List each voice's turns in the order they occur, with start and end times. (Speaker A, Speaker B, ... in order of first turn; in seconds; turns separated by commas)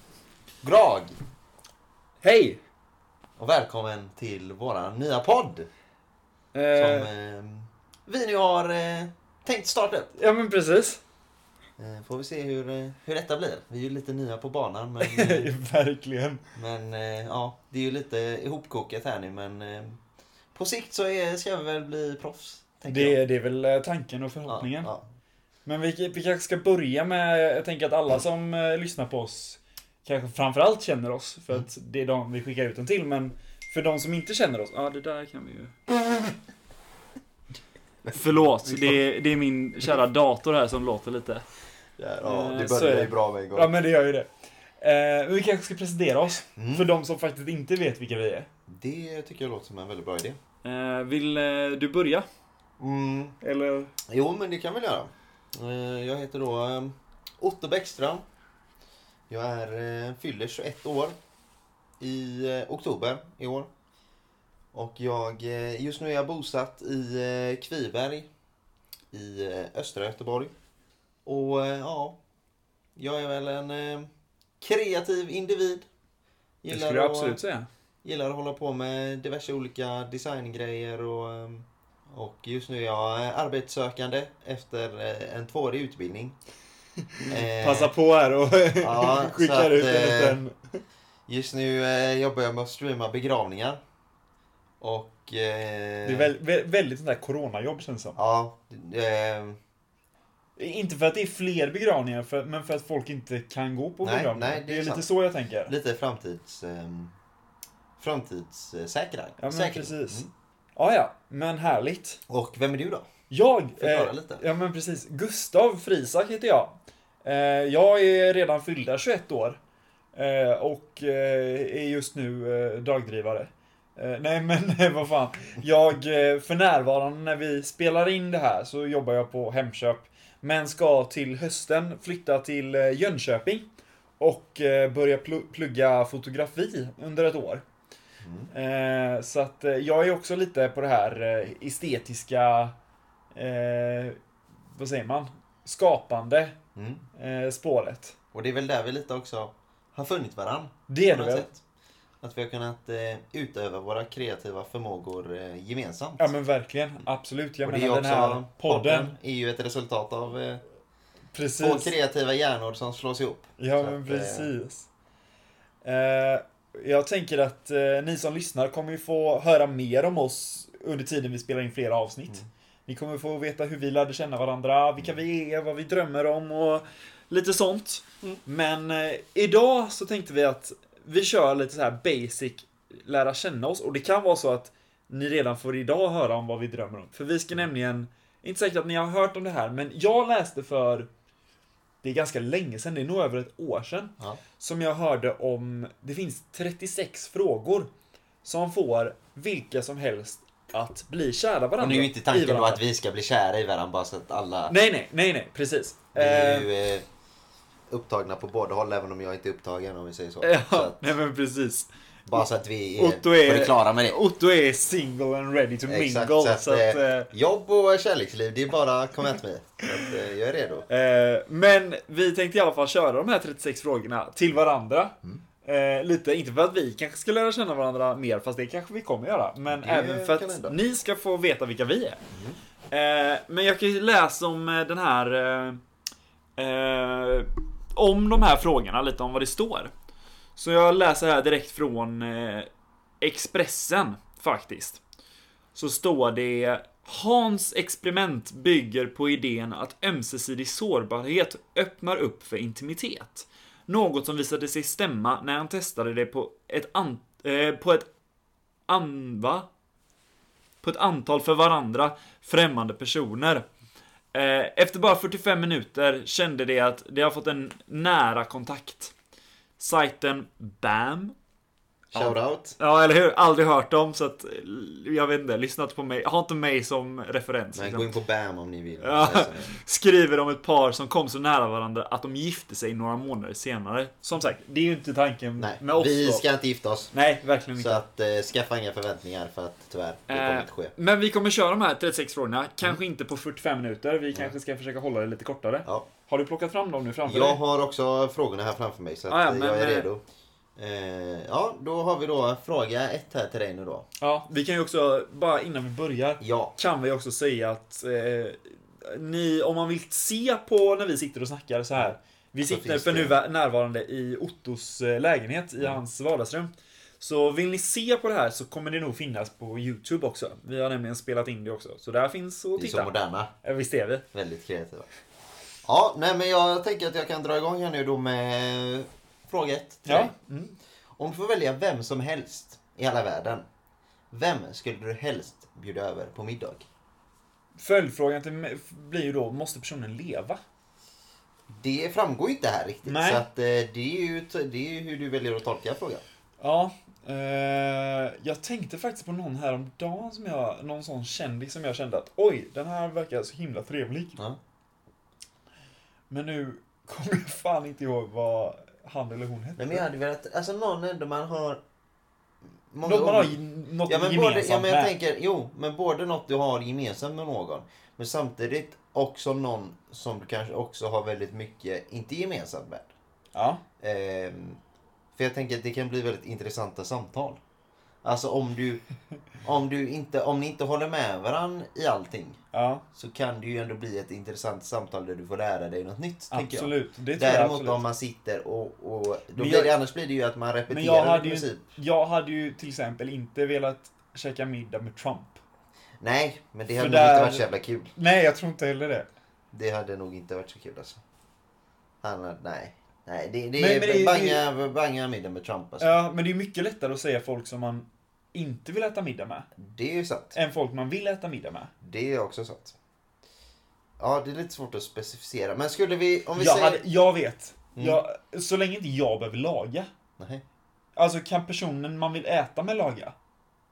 Speaker A: 0.6-1.1, Speaker B: 2.2-2.6, Speaker A: 3.4-5.7, Speaker B: 6.5-7.1, Speaker A: 6.7-10.1, Speaker B: 10.2-11.0, Speaker A: 11.8-15.5, Speaker B: 15.0-16.4, Speaker A: 16.6-20.0, Speaker A: 20.6-23.2, Speaker B: 22.9-24.9, Speaker A: 24.5-25.0, Speaker B: 25.7-35.8, Speaker A: 38.0-39.0, Speaker B: 38.1-41.4, Speaker A: 42.0-43.7, Speaker B: 42.2-44.3, Speaker B: 44.8-48.5, Speaker A: 46.5-46.9, Speaker A: 48.7-50.4, Speaker B: 50.6-52.3, Speaker A: 52.8-53.4, Speaker B: 53.4-53.9, Speaker A: 54.1-58.2, Speaker A: 59.3-61.1, Speaker A: 62.0-63.7, Speaker A: 64.7-68.3, Speaker A: 69.1-70.5, Speaker A: 71.2-72.2, Speaker A: 73.0-75.9, Speaker A: 76.6-77.4, Speaker B: 76.7-77.7, Speaker A: 78.0-86.3, Speaker B: 87.1-90.8, Speaker A: 87.3-87.9, Speaker A: 88.8-90.4, Speaker A: 91.3-93.8, Speaker A: 94.8-96.3, Speaker B: 96.0-98.2, Speaker A: 98.2-99.6, Speaker B: 100.6-105.7, Speaker A: 104.0-105.0, Speaker A: 105.7-107.1, Speaker A: 108.0-110.3, Speaker B: 109.4-110.2, Speaker B: 110.8-112.2, Speaker A: 112.3-113.1, Speaker B: 113.3-119.6, Speaker A: 113.8-114.4, Speaker B: 120.1-133.6, Speaker B: 134.2-137.6, Speaker A: 138.2-138.5, Speaker B: 138.5-142.7, Speaker B: 143.3-144.2, Speaker B: 144.8-146.6, Speaker A: 146.8-147.0, Speaker B: 147.1-148.2, Speaker A: 148.3-151.6, Speaker B: 150.9-151.5, Speaker A: 152.2-156.3, Speaker B: 156.2-159.1, Speaker A: 157.6-160.6, Speaker B: 161.3-161.9, Speaker A: 161.6-164.5, Speaker B: 163.6-164.9, Speaker B: 165.8-191.1, Speaker B: 192.0-197.9, Speaker B: 198.4-202.8, Speaker A: 201.8-204.8, Speaker B: 204.7-206.7, Speaker A: 206.1-207.0, Speaker A: 207.9-211.1, Speaker B: 210.4-212.4, Speaker A: 212.3-214.2, Speaker B: 213.0-217.3, Speaker A: 215.9-220.9, Speaker B: 220.9-232.2, Speaker A: 229.7-230.8, Speaker B: 232.9-235.8, Speaker B: 236.6-239.9, Speaker B: 240.6-242.7, Speaker B: 243.2-245.0, Speaker B: 245.8-258.1, Speaker B: 258.9-259.7, Speaker B: 260.8-263.6, Speaker B: 264.3-269.1, Speaker B: 269.8-271.3, Speaker A: 272.1-272.8, Speaker B: 272.1-278.1, Speaker A: 277.7-279.7, Speaker B: 279.0-286.4, Speaker A: 285.6-287.1, Speaker B: 287.1-288.0, Speaker A: 287.8-290.9, Speaker B: 290.3-297.6, Speaker A: 297.2-300.2, Speaker B: 299.3-300.1, Speaker A: 300.8-304.1, Speaker B: 304.2-323.1, Speaker A: 306.4-306.7, Speaker A: 312.0-313.4, Speaker A: 322.8-323.5, Speaker B: 323.6-324.2, Speaker A: 324.3-325.1, Speaker A: 325.8-330.3, Speaker B: 330.1-330.8, Speaker A: 331.2-333.6, Speaker A: 334.3-336.8, Speaker B: 337.8-340.6, Speaker A: 341.7-346.2, Speaker B: 343.1-343.4, Speaker B: 346.6-354.4, Speaker B: 356.3-360.1, Speaker A: 359.8-361.8, Speaker A: 362.9-373.1, Speaker B: 363.0-365.1, Speaker B: 373.6-373.8, Speaker A: 374.0-374.8, Speaker A: 375.3-377.6, Speaker A: 378.2-379.0, Speaker A: 379.6-382.6, Speaker B: 382.7-383.0, Speaker A: 383.1-391.8, Speaker B: 386.5-388.0, Speaker B: 389.6-389.9, Speaker B: 390.9-395.6, Speaker A: 396.2-398.1, Speaker B: 396.9-399.2, Speaker A: 399.7-401.2, Speaker A: 402.2-406.1, Speaker B: 403.8-404.6, Speaker B: 406.0-409.7, Speaker A: 409.8-410.6, Speaker B: 410.6-411.9, Speaker A: 412.0-412.9, Speaker A: 414.2-417.0, Speaker B: 416.6-420.1, Speaker A: 417.9-418.2, Speaker B: 421.1-423.3